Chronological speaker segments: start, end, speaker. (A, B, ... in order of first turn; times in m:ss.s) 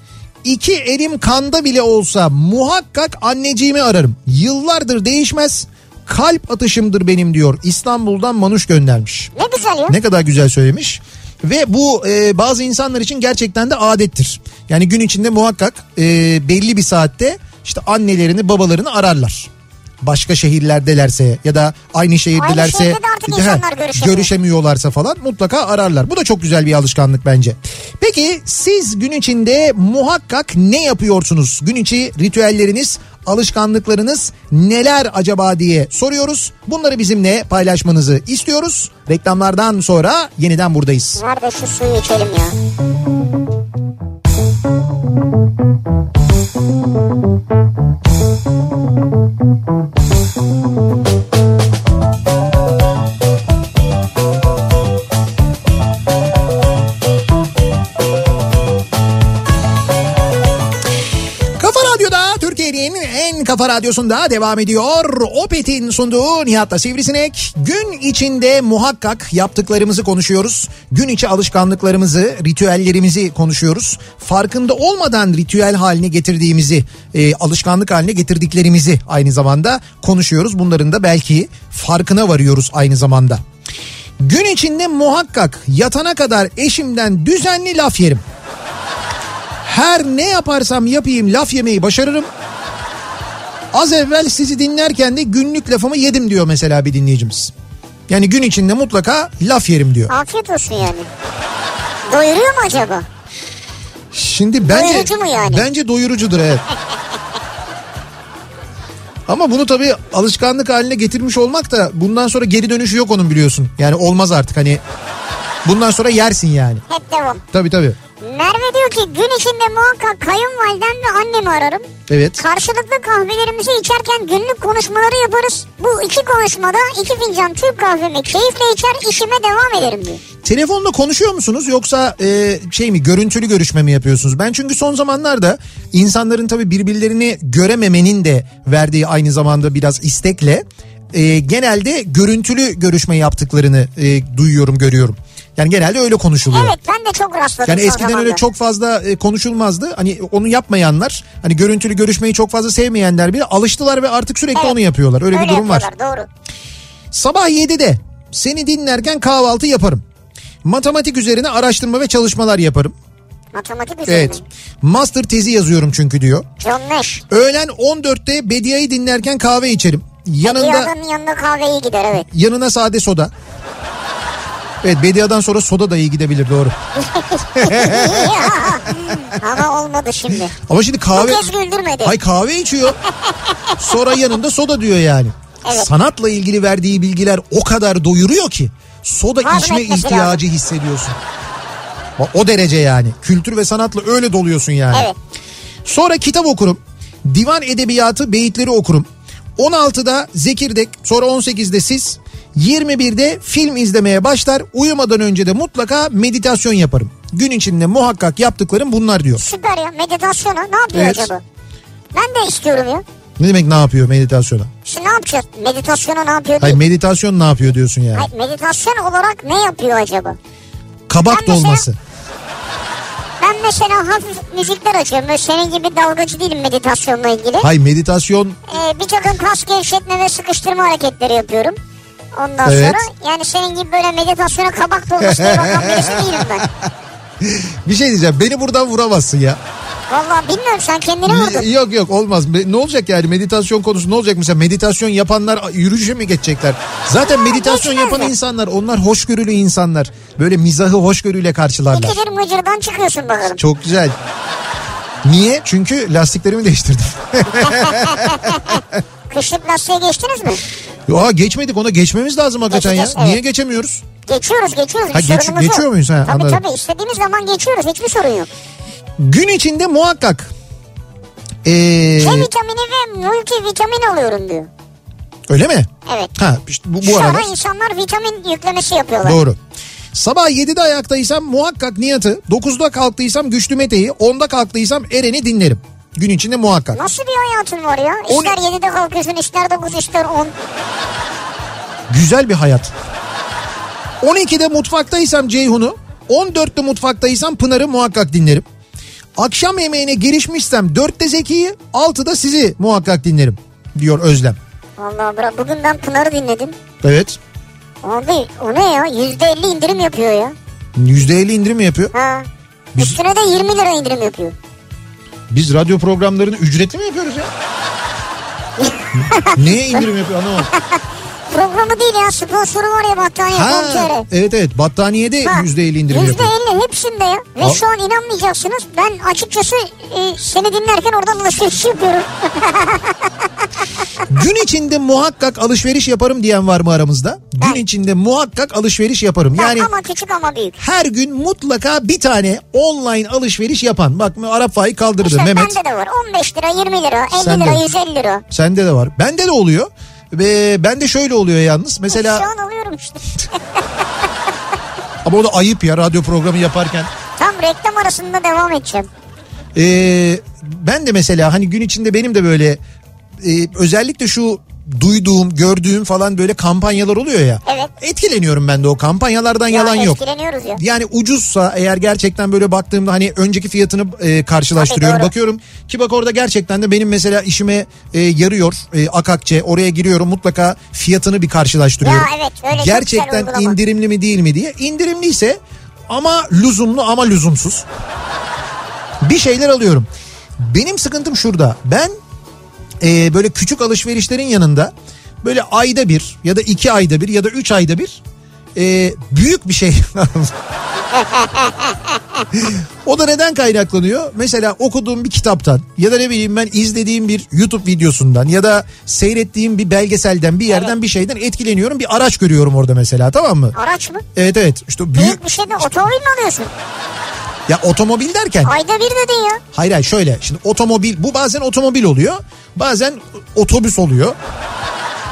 0:00.4-0:09.3 A
0:09.4-0:10.0 B
0:09.9-0:19.5 A
0:20.0-0:41.2 A
0:22.4-0:24.3 B
0:41.2-0:42.6 B
1:01.6-1:23.4 A
1:24.2-1:28.2 A
1:29.6-1:32.3 A
1:33.7-1:37.5 A
1:38.1-1:40.1 A
1:40.1-1:41.1 B
1:42.1-1:43.1 B
1:44.1-1:46.6 A
1:44.6-1:45.7 B
1:49.3-1:54.8 A
1:55.6-1:56.8 A
1:56.9-1:57.4 B
1:57.5-1:58.0 A
1:58.2-2:10.2 B
2:02.1-2:02.4 A
2:10.4-2:26.8 A
2:26.5-2:28.4 B
2:27.7-2:35.9 A
2:35.3-2:36.3 B
2:37.1-2:40.0 A
2:40.6-2:42.9 A
2:43.5-2:44.4 B
2:44.1-2:46.5 A
2:46.6-2:47.2 B
2:47.3-2:50.9 A
2:50.4-2:52.3 B
2:52.3-2:53.3 A
2:54.8-2:56.8 A
2:57.0-3:00.5 B
2:57.6-2:59.2 A
3:00.6-3:01.5 A
3:01.2-3:02.2 B
3:02.0-3:03.0 A
3:03.1-3:03.9 B
3:03.8-3:11.2 A
3:05.6-3:05.9 B
3:09.4-3:10.4 B
3:12.2-3:15.1 A
3:15.8-3:29.4 A
3:29.4-3:31.4 B
3:30.9-3:31.3 A
3:32.1-3:33.0 B
3:33.4-3:34.7 A
3:34.8-3:36.8 B
3:36.6-3:38.3 A
3:38.2-3:40.4 B
3:41.1-3:42.0 A
3:41.3-3:41.9 B
3:43.4-3:47.7 B
3:47.6-3:48.6 A
3:48.7-3:51.8 B
3:52.4-3:56.7 B
3:52.6-3:53.0 A
3:55.2-3:56.9 A
3:57.4-3:59.6 A
4:00.1-4:01.7 B
4:01.3-4:12.2 A
4:07.2-4:08.3 B
4:11.9-4:13.6 B
4:13.6-4:14.2 A
4:15.2-4:18.8 A
4:17.9-4:20.6 B
4:21.1-4:24.0 A
4:22.7-4:23.4 B
4:24.3-4:28.5 B
4:25.1-4:26.6 A
4:29.2-4:30.5 A
4:31.6-4:32.5 A
4:32.2-4:34.7 B
4:35.5-4:37.5 A
4:36.1-4:36.3 B
4:37.0-4:39.4 B
4:39.2-4:39.6 A
4:40.1-4:47.0 A
4:46.9-4:50.5 B
4:48.3-4:48.6 A
4:52.1-4:52.9 A
4:54.2-4:58.6 A
4:59.4-5:04.6 A
5:05.0-5:06.8 B
5:07.0-5:07.4 A
5:08.0-5:10.6 B
5:11.0-5:12.1 A
5:12.1-5:14.6 B
5:15.5-5:17.5 A
5:18.8-5:19.6 B
5:19.5-5:20.7 A
5:20.7-5:24.3 B
5:23.5-5:26.5 A
5:25.4-5:33.5 B
5:34.3-5:39.9 A
5:39.6-5:40.8 B
5:40.8-5:45.8 A
5:45.2-5:48.4 B
5:47.4-5:47.9 A
5:48.5-5:52.5 A
5:52.1-5:53.8 B
5:55.2-5:57.1 A
5:57.4-5:59.1 B
5:59.8-6:02.8 A
6:03.4-6:10.2 A
6:07.7-6:07.9 B
6:09.7-6:10.8 B
6:10.8-6:27.8 A
6:14.8-6:15.3 B
6:22.0-6:23.8 B
6:29.2-6:30.1 A
6:30.6-6:32.1 A
6:33.0-6:38.2 A
6:38.8-6:40.5 A
6:41.2-6:42.0 B
6:42.5-6:53.8 A
6:53.7-6:54.2 B
6:54.4-6:55.4 A
6:55.1-6:56.7 B
6:57.7-6:58.7 A
6:58.6-6:59.6 B
6:59.7-7:04.4 A